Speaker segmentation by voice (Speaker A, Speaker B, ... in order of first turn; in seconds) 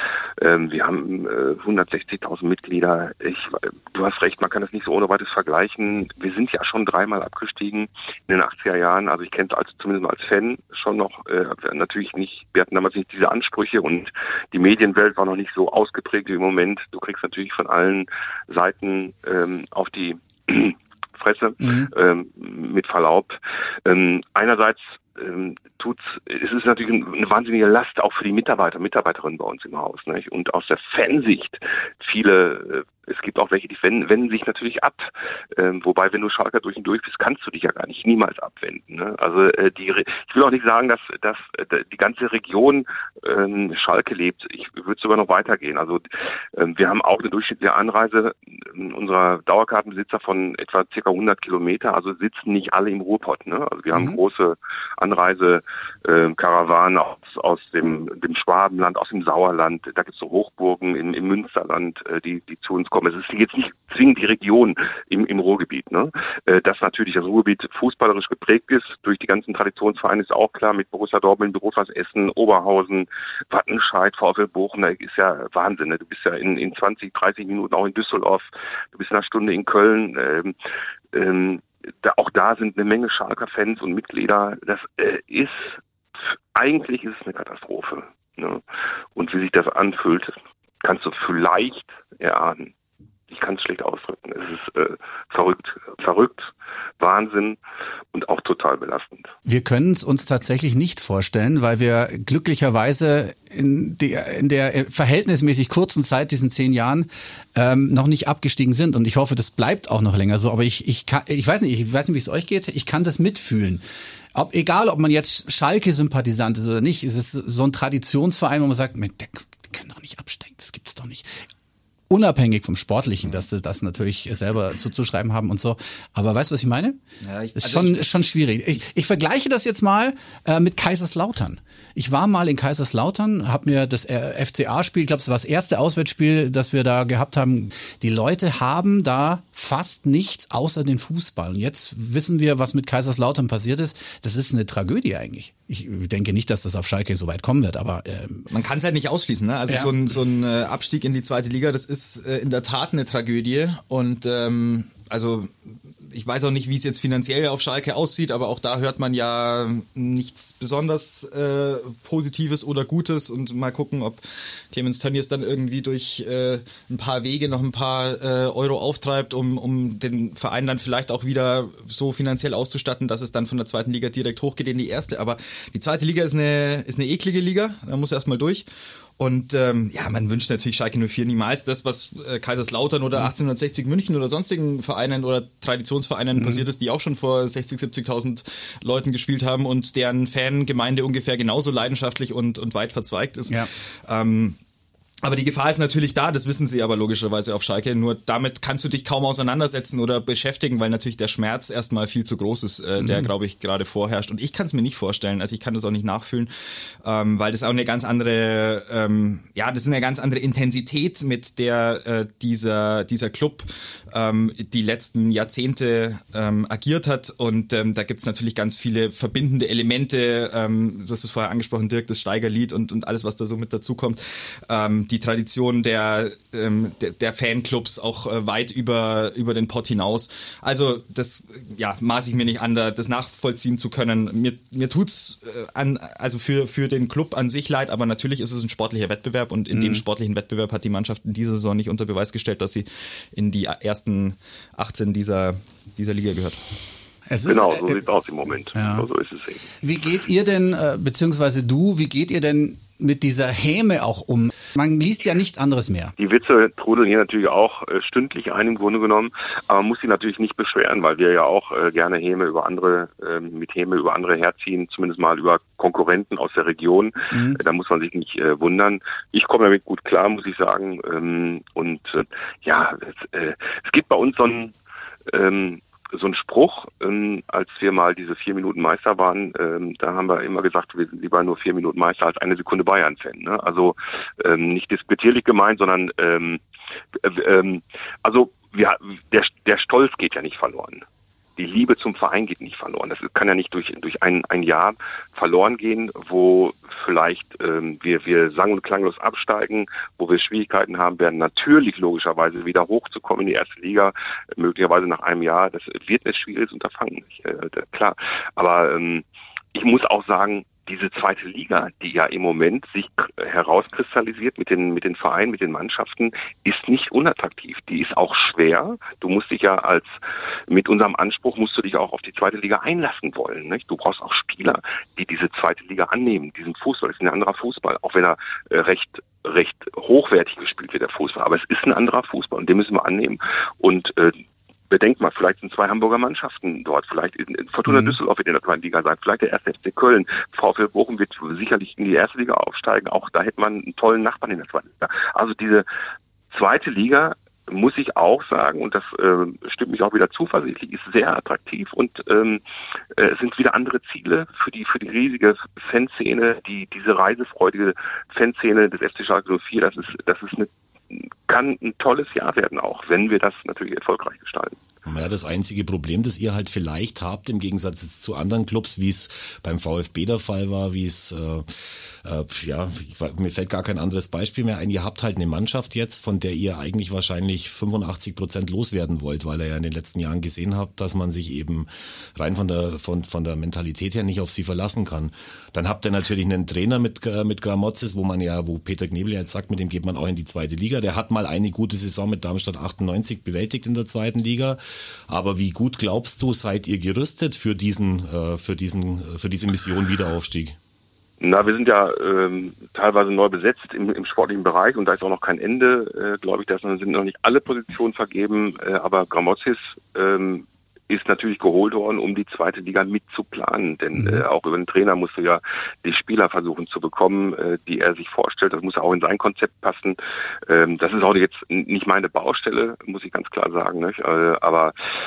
Speaker A: 0.4-80.5, 81.1-85.8, 86.5-88.6, 89.2-92.7, 93.3-97.6, 98.1-99.3, 247.5-249.7, 256.2-274.7, 275.3-286.6, 287.2-291.0, 291.6-320.1, 320.7-345.9, 346.5-352.6, 353.2-364.8, 401.4-424.9
Speaker B: 21.6-21.9, 53.9-54.2, 99.5-113.8, 114.3-121.4, 122.1-127.0, 127.6-148.5, 186.4-186.6, 203.0-203.3, 239.7-240.0, 247.3-248.0, 248.7-249.1, 249.8-256.1, 267.3-267.6, 337.9-338.2, 414.1-414.4
Speaker C: 127.2-128.1, 148.5-178.7, 179.2-194.6, 195.2-206.5, 207.0-246.6
Speaker D: 365.1-400.8